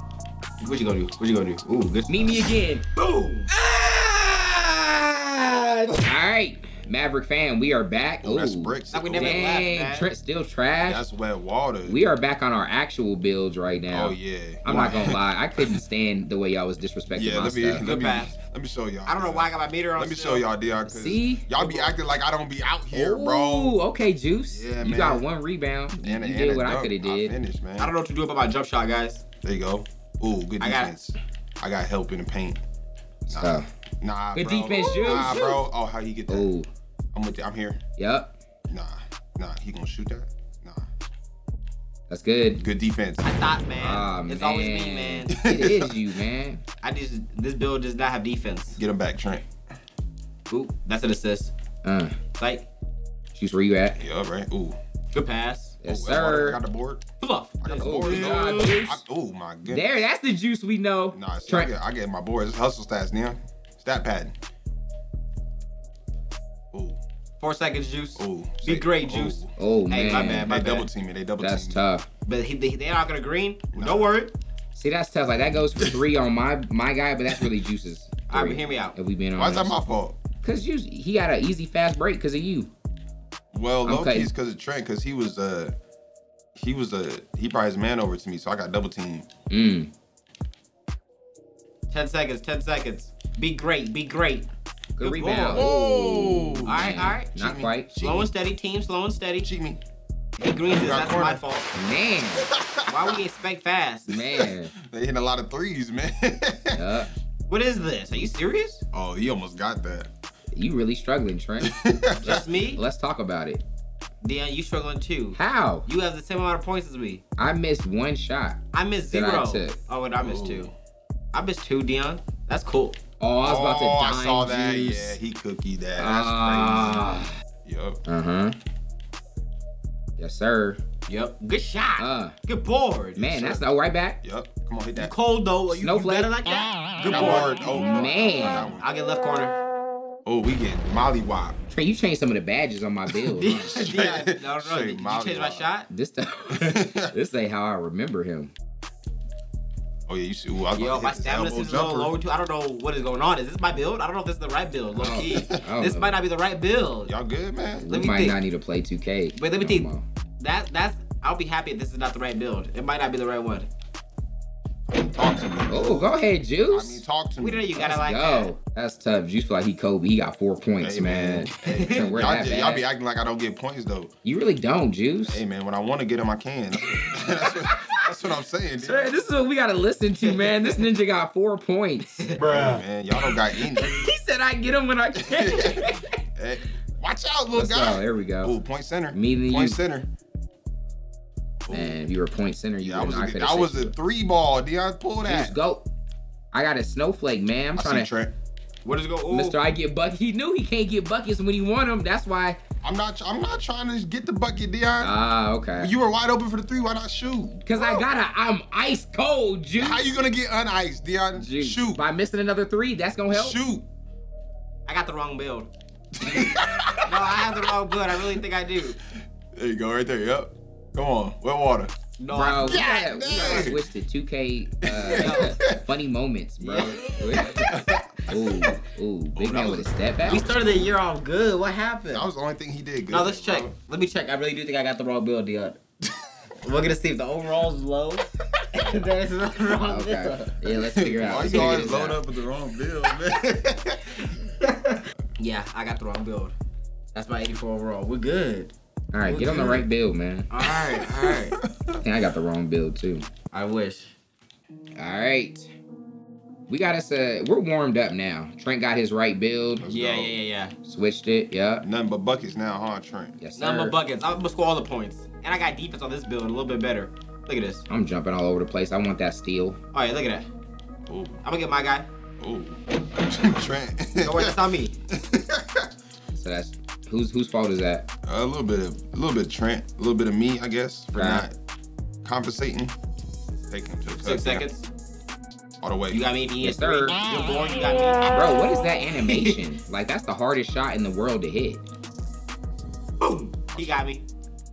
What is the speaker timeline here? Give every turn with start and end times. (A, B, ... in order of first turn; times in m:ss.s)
0:00.6-0:03.5 A
0:02.1-0:02.8 B
0:03.5-0:11.0 B
0:08.2-0:09.5 C
0:08.9-0:10.1 A
0:10.8-0:12.0 C
0:11.8-0:17.8 B
0:13.9-0:15.8 C
0:17.1-0:23.8 C
0:17.8-0:18.3 A
0:19.0-0:20.4 A
0:20.8-0:21.5 B
0:22.9-0:27.3 B
0:24.5-0:25.2 C
0:26.0-0:27.9 C
0:27.8-0:29.2 A
0:29.4-0:32.6 C
0:30.6-0:30.9 A
0:33.3-0:33.7 B
0:33.3-0:36.5 C
0:34.3-0:35.6 B
0:36.3-0:36.7 B
0:37.1-0:37.8 C
0:38.0-0:38.3 B
0:38.7-0:40.9 C
0:42.1-0:42.6 B
0:42.6-0:43.3 C
0:43.2-0:45.3 A
0:43.8-0:46.6 B
0:45.3-0:46.0 C
0:46.8-0:48.8 A
0:48.8-0:49.5 C
0:50.5-0:51.5 A
0:51.8-0:52.2 B
0:52.4-0:52.6 A
0:53.3-0:54.0 B
0:54.0-0:54.8 C
0:55.1-0:55.8 A
0:55.8-0:56.6 B
0:55.8-0:57.0 C
0:57.2-0:58.8 A
0:57.6-1:00.0 C
0:57.8-0:59.0 B
0:59.6-1:01.7 B
1:01.1-1:04.3 C
1:06.7-1:07.0 C
1:07.4-1:10.9 A
1:08.2-1:09.5 C
1:09.6-1:10.5 B
1:10.2-1:11.8 C
1:11.4-1:12.0 B
1:12.2-1:14.3 A
1:13.7-1:14.1 C
1:14.7-1:19.8 B
1:18.3-1:18.9 A
1:19.3-1:20.2 C
1:20.4-1:22.7 B
1:23.5-1:25.7 C
1:23.8-1:24.3 B
1:26.5-1:29.3 C
1:29.5-1:29.9 B
1:31.9-1:34.5 A
1:35.0-1:37.9 B
1:35.0-1:35.7 A
1:35.5-1:38.3 C
1:36.6-1:37.3 A
1:37.9-1:39.5 A
1:39.4-1:39.8 C
1:40.4-1:41.7 A
1:40.7-1:41.4 C
1:41.7-1:42.5 B
1:42.4-1:43.2 C
1:42.8-1:44.1 A
1:44.1-1:44.7 B
1:44.3-1:46.9 C
1:46.7-1:47.1 B
1:47.5-1:48.8 A
1:48.9-1:50.1 C
1:50.5-1:53.6 B
1:51.6-1:52.5 C
1:52.2-1:52.8 A
1:54.2-1:57.2 A
1:55.4-1:55.8 B
1:57.4-1:58.6 B
1:58.7-2:00.7 A
1:59.1-1:59.7 B
2:00.2-2:00.7 C
2:01.3-2:03.0 A
2:03.2-2:05.2 B
2:03.4-2:08.0 C
2:06.0-2:07.3 B
2:08.0-2:08.6 B
2:10.2-2:10.8 B
2:11.1-2:13.3 A
2:12.0-2:12.3 B
2:13.2-2:14.2 B
2:13.2-2:13.6 C
2:14.2-2:15.1 C
2:15.0-2:19.6 A
2:15.7-2:16.3 B
2:17.0-2:18.9 C
2:17.6-2:18.7 B
2:20.2-2:21.6 C
2:21.7-2:23.9 B
2:23.2-2:25.9 A
2:23.7-2:25.7 C
2:25.9-2:28.5 B
2:26.5-2:27.1 C
2:30.1-2:32.1 C
2:30.8-2:37.1 A
2:35.0-2:36.2 B
2:35.0-2:35.6 C
2:37.0-2:37.9 C
2:37.8-2:40.0 B
2:37.9-2:38.4 A
2:39.4-2:39.9 A
2:40.4-2:43.7 A
2:44.9-2:46.1 C
2:45.7-2:47.0 B
2:46.7-2:47.7 C
2:47.4-2:48.5 A
2:47.7-2:52.8 B
2:50.8-2:54.1 C
2:51.6-2:52.2 A
2:54.2-2:55.4 B
2:55.2-2:59.2 C
2:57.4-2:58.0 B
2:58.8-3:02.4 B
3:00.2-3:00.8 A
3:02.2-3:02.7 A
3:02.4-3:03.9 C
3:03.6-3:06.2 B
3:05.1-3:10.1 C
3:07.5-3:08.5 B
3:09.1-3:09.8 B
3:11.6-3:12.0 C
3:11.7-3:13.9 B
3:12.8-3:15.5 C
3:15.2-3:15.8 B
3:16.5-3:18.1 B
3:17.7-3:18.3 C
3:18.8-3:19.6 A
3:19.3-3:22.6 B
3:22.8-3:25.1 C
3:25.0-3:25.9 B
3:25.8-3:28.0 C
3:27.6-3:30.1 B
3:29.8-3:32.0 C
3:31.4-3:33.6 B
3:33.3-3:33.8 C
3:34.8-3:35.7 A
3:36.1-3:38.4 C
3:37.0-3:39.0 A
3:39.5-3:41.9 C
3:42.2-3:43.7 A
3:42.3-3:47.8 B
3:42.6-3:43.8 C
3:44.8-3:45.8 C
3:45.2-3:45.6 A
3:46.6-3:47.9 A
3:46.8-3:48.1 C
3:48.3-3:50.4 B
3:49.3-3:50.9 C
3:50.2-3:52.3 A
3:52.1-3:53.7 C
3:53.1-3:55.8 A
3:56.6-4:00.5 A
3:59.8-4:02.2 B
4:00.9-4:04.3 C
4:01.3-4:01.9 A
4:04.6-4:06.5 A
4:07.1-4:09.8 A
4:09.1-4:10.5 B
4:09.3-4:09.8 C
4:10.5-4:11.6 A
4:10.6-4:12.0 C
4:12.0-4:13.3 B
4:13.5-4:14.1 A
4:15.0-4:15.7 B
4:16.7-4:19.8 B
4:19.8-4:20.4 C
4:19.9-4:20.7 A
4:20.8-4:21.8 B
4:21.8-4:23.4 C
4:23.4-4:24.0 B
4:23.6-4:27.8 A
4:27.9-4:29.8 B
4:29.9-4:30.5 A
4:31.1-4:31.4 C
4:31.4-4:32.0 A
4:32.4-4:34.6 C
4:34.2-4:35.0 A
4:35.1-4:35.9 C
4:36.3-4:38.1 B
4:38.2-4:41.5 C
4:41.1-4:41.5 B
4:42.2-4:42.9 C
4:43.7-4:44.6 C
4:44.1-4:44.8 A
4:45.8-4:46.2 C
4:46.1-4:49.6 A
4:46.6-4:47.2 B
4:48.3-4:51.8 B
4:53.2-4:54.2 A
4:53.7-4:54.0 C